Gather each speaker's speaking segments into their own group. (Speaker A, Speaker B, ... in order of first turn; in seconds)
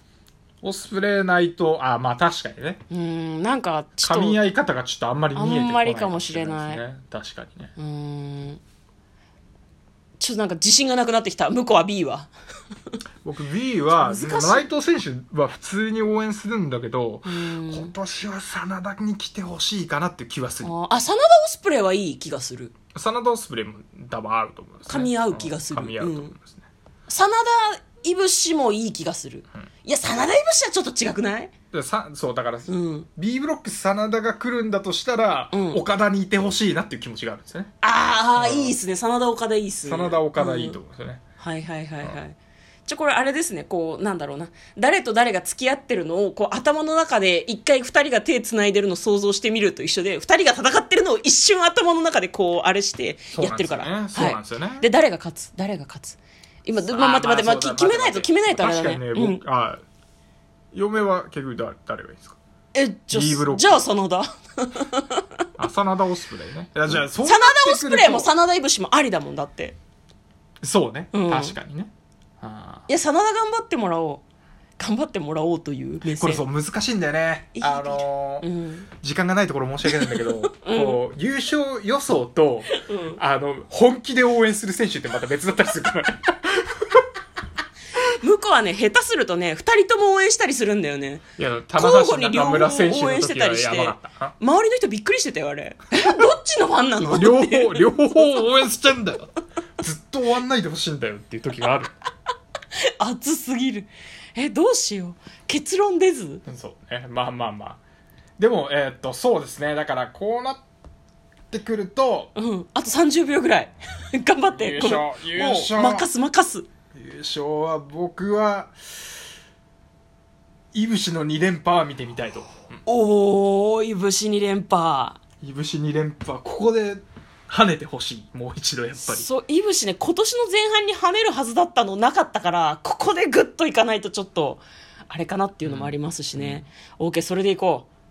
Speaker A: 0.6-2.8, 4.0-7.7, 13.2-20.7, 22.9-26.7, 31.7-37.7, 38.4-38.8, 39.8-41.2, 53.3-54.9, 56.8-59.8, 60.7-62.4, 63.1-63.9, 65.6-68.3, 70.6-72.9, 76.2-78.5, 79.0-87.0, 91.4-94.3, 97.0-101.9, 106.5-107.8, 108.4-110.6, 111.5-112.3, 114.5-116.1, 116.9-118.7, 120.7-122.8, 125.4-129.3, 135.6-136.7
Speaker B: 2.9-4.4, 5.3-6.8, 7.8-8.6, 10.2-12.3, 14.0-14.7, 17.2-17.9, 20.6-22.7, 24.9-26.3, 27.1-31.5, 32.7-33.1, 35.5-35.8, 37.8-40.8, 41.4-59.4, 62.7-65.3, 66.9-69.8, 71.1-71.6, 72.9-74.2, 74.8-76.4, 77.6-78.9, 79.9-81.0, 82.7-83.2, 88.1-91.2, 91.8-98.2, 103.0-106.4, 112.4-116.7, 122.9-125.2, 129.0-137.9